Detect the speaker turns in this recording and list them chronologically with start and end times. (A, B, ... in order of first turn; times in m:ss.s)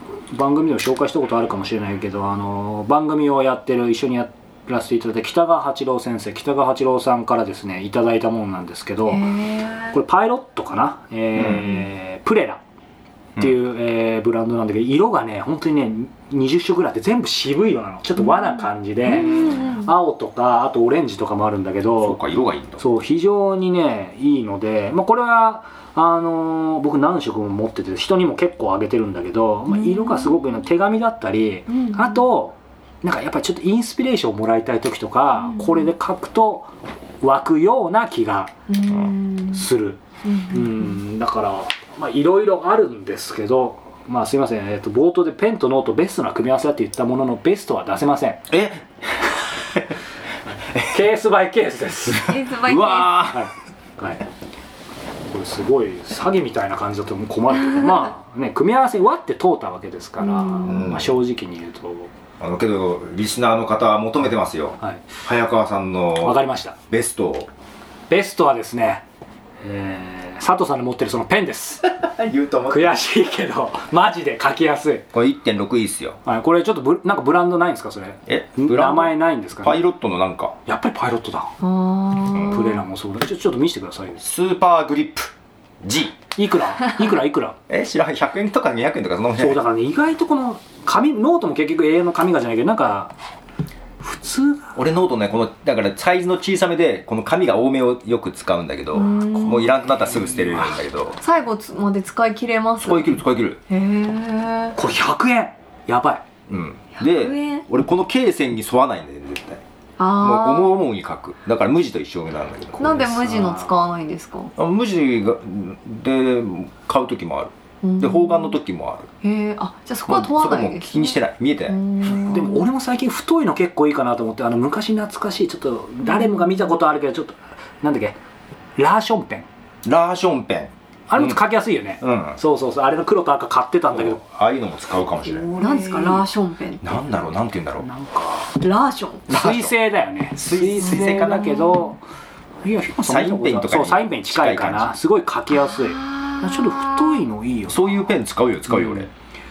0:00.3-0:09.3 A
0:09.1-0:10.0 B
0:09.9-0:12.6 A
0:11.4-0:11.6 C
0:13.4-0:22.2 A
0:18.2-0:19.9 B
0:22.0-0:22.8 C
0:22.8-0:36.7 A
0:29.7-0:30.5 B
0:31.7-0:32.2 B
0:35.4-0:35.9 B
0:37.2-0:38.5 A
0:38.7-0:39.7 B
0:39.5-0:48.5 A
0:40.2-0:41.0 B
0:48.5-0:48.8 C
0:50.8-0:52.3 A
0:52.1-0:53.5 C
0:52.2-0:53.2 B
0:53.3-0:54.2 A
0:55.3-1:02.1 A
1:00.2-1:00.8 B
1:00.7-1:01.2 C
1:02.4-1:07.5 C
1:04.8-1:05.1 A
1:06.2-1:06.8 A
1:08.1-1:09.0 A
1:09.6-1:11.9 A
1:12.0-1:13.0 C
1:12.7-1:15.1 A
1:15.1-1:16.2 C
1:16.2-1:19.8 A
1:18.3-1:20.6 C
1:20.7-1:21.5 A
1:21.6-1:22.8 B
1:22.3-1:22.6 C
1:22.5-1:24.3 A
1:24.2-1:26.2 C
1:26.4-1:27.6 A
1:27.7-1:29.6 C
1:29.4-1:33.1 A
1:34.0-1:34.7 A
1:34.8-1:41.2 C
1:38.9-1:39.7 B
1:39.4-1:40.7 A
1:41.2-1:43.1 B
1:42.8-1:43.6 C
1:43.7-1:44.8 B
1:44.8-1:46.2 A
1:46.5-1:49.6 C
1:47.0-1:47.6 B
1:50.0-1:50.8 B
1:50.2-1:52.9 C
1:52.8-1:54.5 B
1:52.8-1:53.7 A
1:54.6-1:59.1 C
1:57.8-1:58.6 B
1:59.2-2:02.7 B
2:00.1-2:01.8 C
2:02.3-2:08.2 A
2:06.0-2:06.7 B
2:08.8-2:09.5 A
2:09.8-2:11.4 C
2:11.1-2:14.2 A
2:12.0-2:12.4 C
2:13.9-2:15.5 C
2:15.4-2:16.3 A
2:15.5-2:17.0 B
2:16.8-2:17.9 C
2:17.8-2:18.6 A
2:18.6-2:19.2 B
2:19.3-2:19.7 C
2:19.3-2:22.0 A
2:20.3-2:21.8 C
2:22.6-2:28.1 A
2:23.0-2:25.0 C
2:25.6-2:27.2 B
2:27.7-2:29.1 C
2:28.7-2:29.1 A